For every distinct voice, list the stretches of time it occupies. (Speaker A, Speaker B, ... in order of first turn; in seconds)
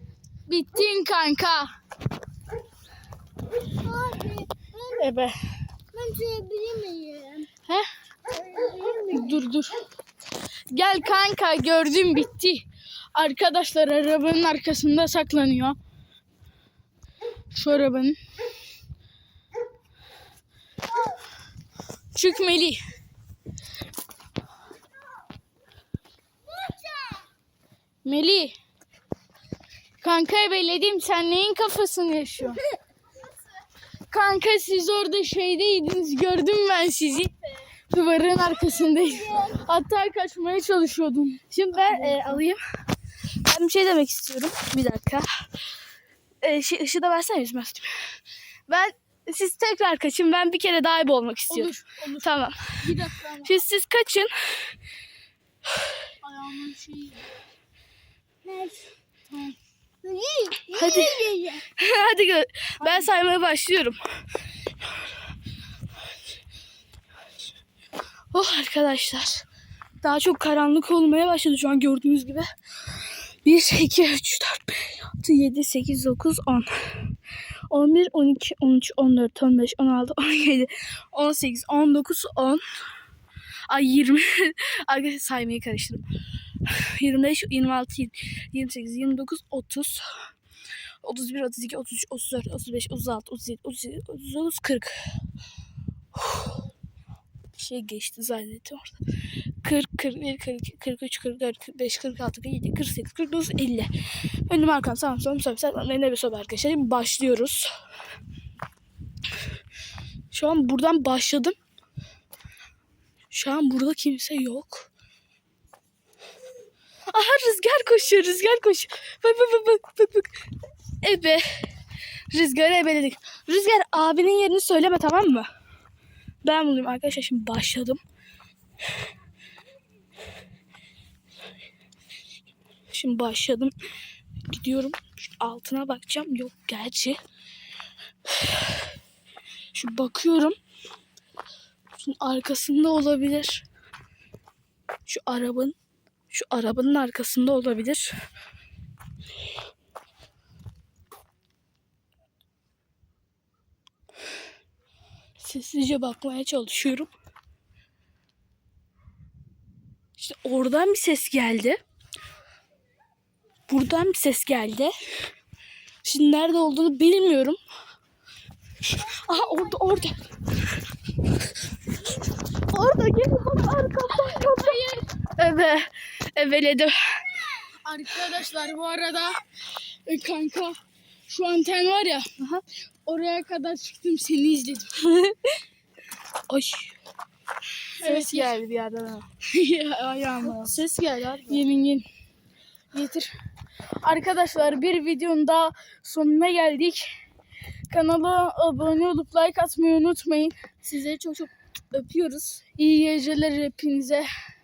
Speaker A: 0.5-1.7, 5.0-5.3, 9.1-9.8, 10.7-15.8, 17.5-18.2, 22.1-22.8, 28.0-28.6, 30.0-32.6, 34.1-37.3, 37.9-42.4, 51.5-53.6, 56.2-57.4, 59.3-59.5, 61.0-61.6, 62.8-63.1, 174.2-175.0, 177.8-179.4, 180.1-182.2, 183.1-185.0, 188.0-188.6, 189.5-190.8, 191.5-192.1, 192.9-193.3, 194.0-197.1, 197.9-200.5, 202.8-204.3
Speaker B: 3.7-5.0, 5.9-7.5, 8.3-9.2, 26.7-27.2, 58.5-58.8, 60.0-61.3
Speaker C: 41.5-42.6, 43.4-45.3, 46.4-47.9, 48.7-52.9, 53.4-54.7, 60.7-64.0, 68.3-69.5, 70.0-72.5, 73.4-76.7, 77.7-82.6, 83.7-86.0, 86.6-90.1, 91.0-94.9, 96.1-96.5, 97.5-99.0, 99.6-103.9, 104.5-107.7, 110.3-111.5, 113.3-114.9, 117.1-120.3, 121.0-121.4, 122.3-125.5, 126.4-128.0, 132.9-133.7, 134.5-137.2, 138.3-138.8, 139.7-140.5, 142.0-143.6, 145.1-145.8, 146.3-148.1, 155.4-157.1, 160.2-161.8, 163.7-164.9, 166.0-167.6, 168.9-170.2, 172.7-176.9, 182.4-182.6, 185.0-185.5, 186.5-187.0, 188.0-189.3, 190.4-191.6, 200.8-202.6